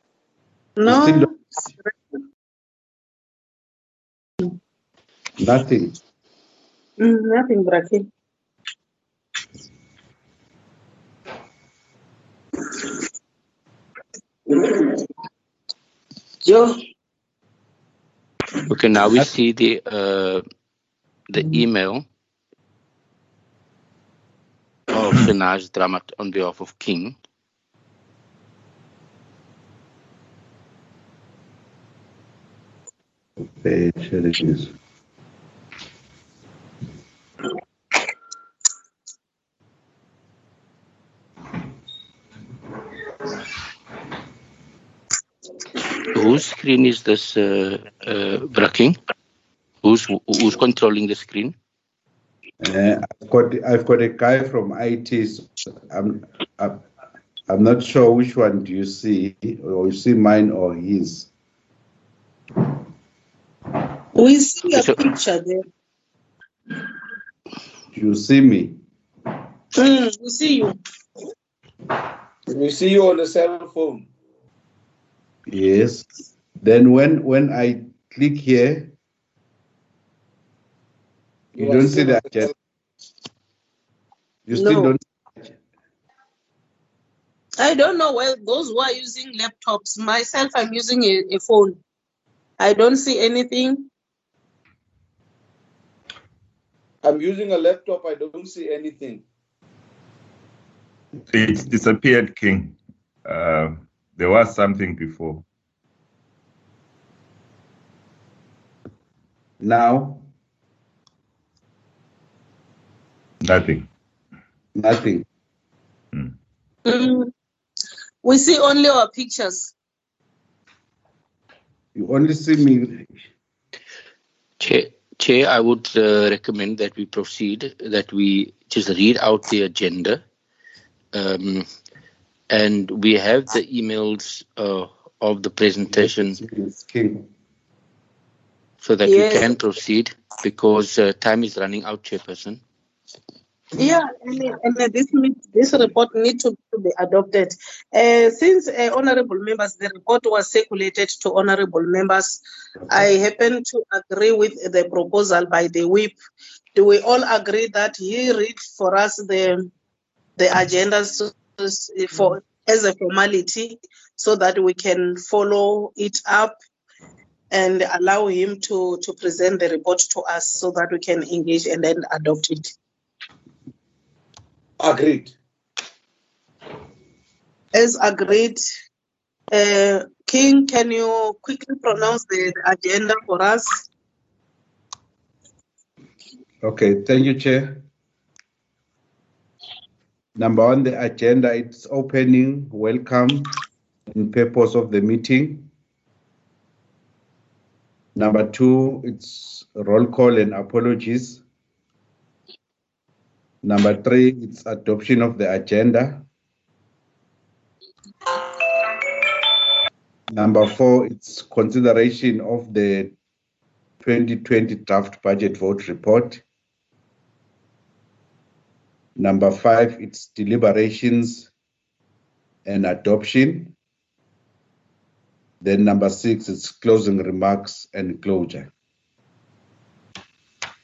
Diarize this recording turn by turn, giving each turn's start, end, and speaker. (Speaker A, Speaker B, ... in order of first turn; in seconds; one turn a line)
Speaker A: 0.8-1.9
Speaker B: 0.8-1.3
Speaker B: 5.4-6.0
Speaker A: 7.0-8.1
Speaker A: 14.5-14.9
Speaker A: 16.4-16.7
Speaker C: 18.7-20.4
Speaker C: 21.3-22.1
Speaker C: 24.9-27.2
Speaker B: 33.4-34.7
Speaker C: 46.1-49.0
Speaker C: 49.8-51.5
Speaker B: 52.6-56.8
Speaker B: 57.5-61.3
Speaker A: 64.2-65.6
Speaker C: 64.7-65.1
Speaker B: 67.9-68.8
Speaker A: 69.8-70.8
Speaker D: 72.5-74.1
Speaker B: 75.5-76.1
Speaker B: 76.6-78.9
Speaker D: 81.6-82.5
Speaker B: 81.6-82.5
Speaker B: 84.5-85.5
Speaker A: 84.5-84.9
Speaker A: 87.6-91.8
Speaker A: 92.6-93.9
Speaker D: 97.0-99.2
Speaker E: 101.3-105.4
Speaker B: 109.6-110.2
Speaker E: 113.4-113.9
Speaker B: 114.8-115.3
Speaker A: 116.9-117.3
Speaker A: 118.2-119.7
Speaker B: 122.0-123.2
Speaker C: 124.6-130.2
Speaker C: 131.1-131.7
Speaker C: 132.5-136.4
Speaker B: 135.8-137.3
Speaker C: 138.8-142.6
Speaker A: 139.1-139.6
Speaker A: 143.8-156.2
Speaker A: 156.8-159.7
Speaker A: 160.4-166.6
Speaker A: 167.5-172.7
Speaker D: 174.8-175.3
Speaker A: 177.7-178.6
Speaker A: 179.5-183.8
Speaker B: 186.6-187.8
Speaker B: 190.3-193.6
Speaker B: 194.1-195.7
Speaker B: 198.2-201.4
Speaker B: 203.6-206.3
Speaker B: 210.3-213.2
Speaker B: 214.0-216.4
Speaker B: 219.2-221.5
Speaker B: 222.7-223.8
Speaker B: 225.6-228.7